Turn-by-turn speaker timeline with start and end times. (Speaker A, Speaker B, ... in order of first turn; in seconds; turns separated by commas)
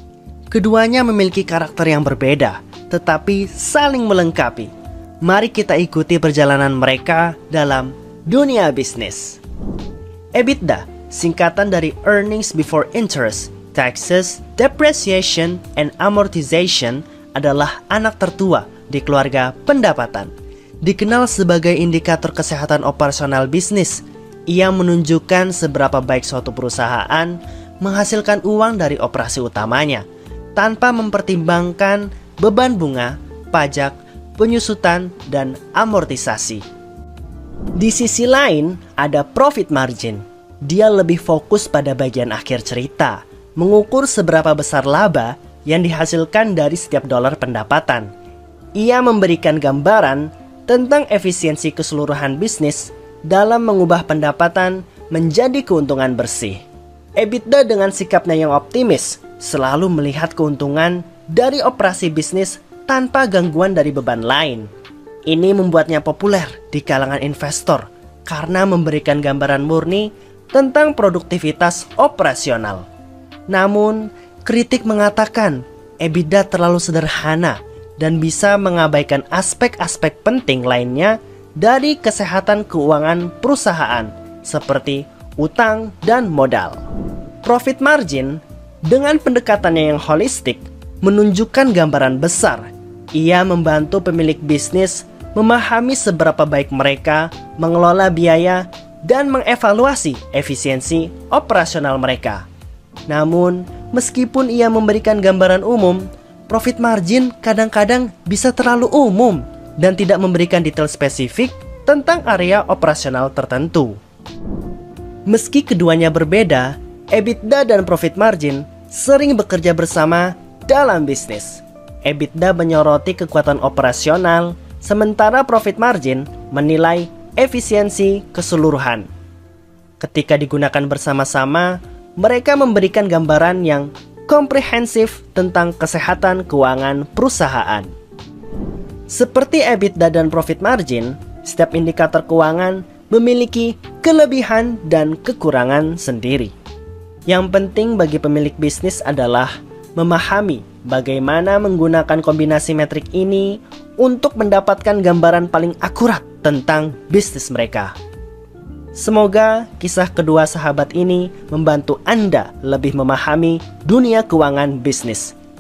Speaker A: 0.5-4.7, Speaker A: 5.2-9.4, Speaker A: 10.3-20.3, Speaker A: 20.8-30.1, Speaker A: 30.6-36.6, Speaker A: 37.8-48.1, Speaker A: 48.8-56.6, Speaker A: 57.2-64.7, Speaker A: 65.3-72.8, Speaker A: 73.5-86.8, Speaker A: 87.4-102.5, Speaker A: 103.1-114.0, Speaker A: 115.3-129.1, Speaker A: 130.0-137.9, Speaker A: 139.1-146.5, Speaker A: 147.3-158.0, Speaker A: 158.9-165.3